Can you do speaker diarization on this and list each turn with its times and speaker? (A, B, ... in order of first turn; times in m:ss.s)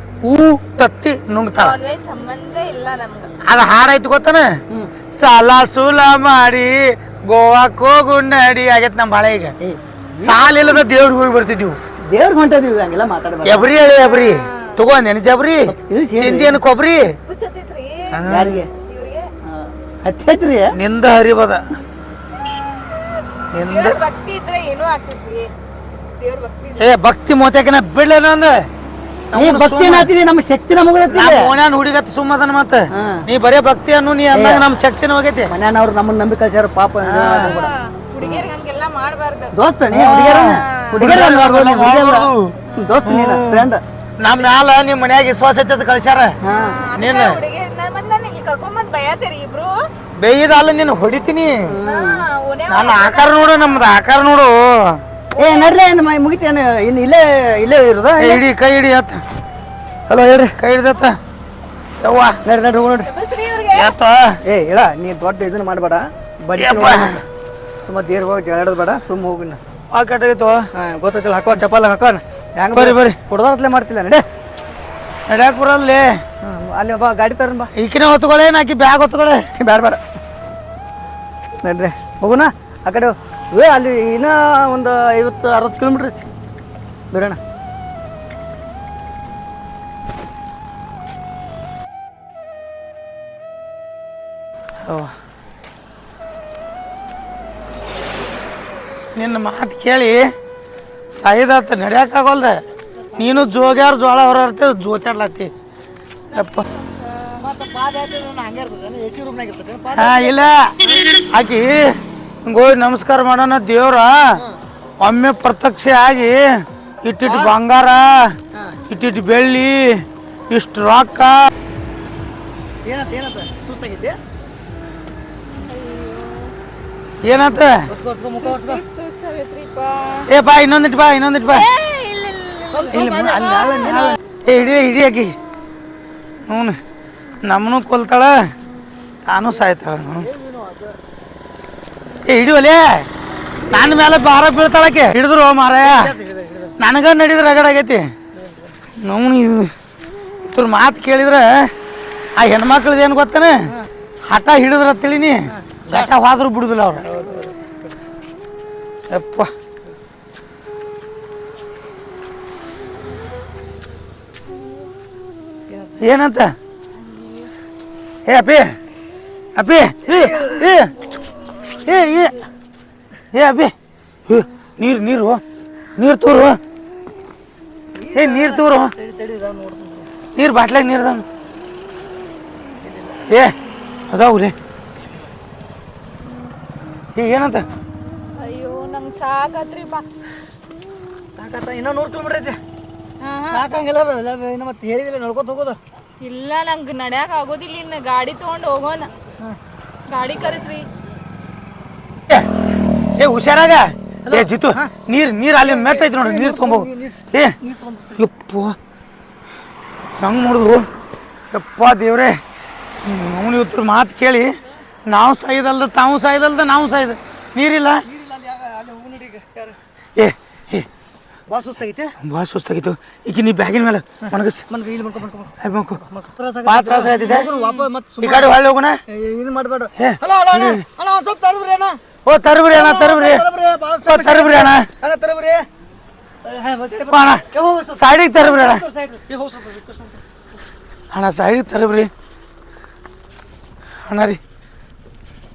0:00.2-0:01.8 A
0:01.5-0:03.3 B
0:03.4-0:04.5 A
0:05.1-0:09.6 A
0:09.6-0:10.5 C
0:10.2-0:11.8 A
0:12.0-0:13.7 C
0:13.4-0:17.0 A
0:13.8-0:14.8 B
0:15.7-0:16.6 C
0:17.3-0:18.2 B
0:18.1-0:18.6 A
0:18.3-0:18.7 C
0:18.9-0:19.3 B
0:19.5-0:20.7 C
0:20.7-0:21.6 A
0:23.5-0:24.0 A
0:23.7-0:25.5 B
0:26.2-0:26.9 B
0:26.8-0:28.7 A
0:29.3-0:30.1 A
0:29.3-0:31.5 C
0:31.1-0:35.5 A
0:32.9-0:33.3 C
0:34.3-0:34.7 C
0:35.5-0:38.5 C
0:37.0-0:37.6 A
0:37.3-0:39.5 B
0:39.5-0:43.8 C
0:39.9-0:46.4 A
0:40.4-0:41.0 B
0:42.7-0:43.0 B
0:46.4-0:46.8 C
0:46.5-0:49.8 B
0:47.0-0:47.4 A
0:50.2-0:51.6 A
0:51.7-0:52.2 C
0:51.8-0:53.9 B
0:52.7-0:55.0 A
0:55.3-0:55.8 B
0:55.4-0:58.4 C
0:58.2-0:59.2 A
1:00.1-1:00.6 C
1:00.6-1:01.2 A
1:02.0-1:02.4 A
1:02.4-1:03.1 C
1:03.1-1:04.0 B
1:03.7-1:04.4 A
1:04.4-1:07.2 C
1:06.6-1:07.2 A
1:07.8-1:09.6 C
1:09.9-1:10.6 A
1:10.7-1:14.2 C
1:12.7-1:13.2 A
1:15.3-1:16.1 A
1:16.4-1:17.7 C
1:17.8-1:19.5 A
1:19.6-1:20.0 C
1:21.6-1:26.3 C
1:27.1-1:27.4 C
1:34.8-1:35.1 A
1:39.2-1:40.3 A
1:41.1-1:42.6 A
1:43.1-1:43.4 C
1:43.2-1:45.5 A
1:46.3-1:47.3 B
1:46.3-1:46.7 A
1:47.4-1:51.0 C
1:50.0-1:54.3 A
1:55.0-1:58.3 A
1:57.3-1:57.6 C
1:58.9-2:01.4 A
2:02.8-2:04.2 C
2:05.5-2:06.5 B
2:07.2-2:07.9 A
2:07.9-2:08.8 C
2:08.4-2:10.3 B
2:10.3-2:11.7 A
2:11.5-2:14.1 B
2:12.7-2:14.2 C
2:12.9-2:15.4 A
2:16.4-2:16.8 A
2:17.4-2:18.4 A
2:19.3-2:20.3 A
2:19.6-2:21.0 C
2:22.2-2:23.1 A
2:23.7-2:26.1 A
2:25.8-2:26.8 C
2:26.8-2:28.1 A
2:28.3-2:28.8 C
2:29.0-2:29.7 A
2:30.5-2:31.7 A
2:32.4-2:33.6 A
2:34.3-2:37.0 A
2:35.5-2:36.1 C
2:37.0-2:37.9 C
2:39.1-2:39.5 A
2:45.7-2:46.0 C
2:46.0-2:46.5 A
2:48.3-2:48.7 A
2:49.6-2:50.9 A
2:50.1-2:50.6 C
2:51.7-2:52.4 A
2:53.3-2:53.7 A
2:54.3-2:55.4 A
2:56.0-2:56.6 A
2:58.0-3:00.1 C
2:58.2-2:58.9 A
3:00.4-3:01.2 A
3:02.8-3:03.3 C
3:03.3-3:03.5 A
3:04.1-3:04.6 A
3:07.2-3:07.7 A
3:08.4-3:10.0 B
3:11.3-3:12.6 C
3:13.2-3:13.7 B
3:13.5-3:15.8 C
3:16.2-3:19.1 B
3:20.1-3:20.9 B
3:23.2-3:27.6 A
3:24.2-3:24.9 C
3:25.6-3:28.2 C
3:28.2-3:28.8 A
3:30.2-3:30.9 A
3:31.5-3:32.4 A
3:33.0-3:38.0 A
3:38.1-3:39.8 C
3:40.2-3:40.9 A
3:41.5-3:42.2 C
3:42.2-3:44.6 A
3:44.7-3:52.0 C
3:45.6-3:46.0 A
3:46.6-3:47.5 A
3:47.2-3:47.8 B
3:48.2-3:49.0 A
3:50.0-3:50.8 A
3:52.2-3:53.4 A
3:52.7-3:55.7 C
3:54.1-3:54.9 A
3:56.4-4:00.2 C
3:57.1-3:57.4 A
3:58.0-3:58.8 A
4:01.1-4:02.1 A
4:04.0-4:04.4 A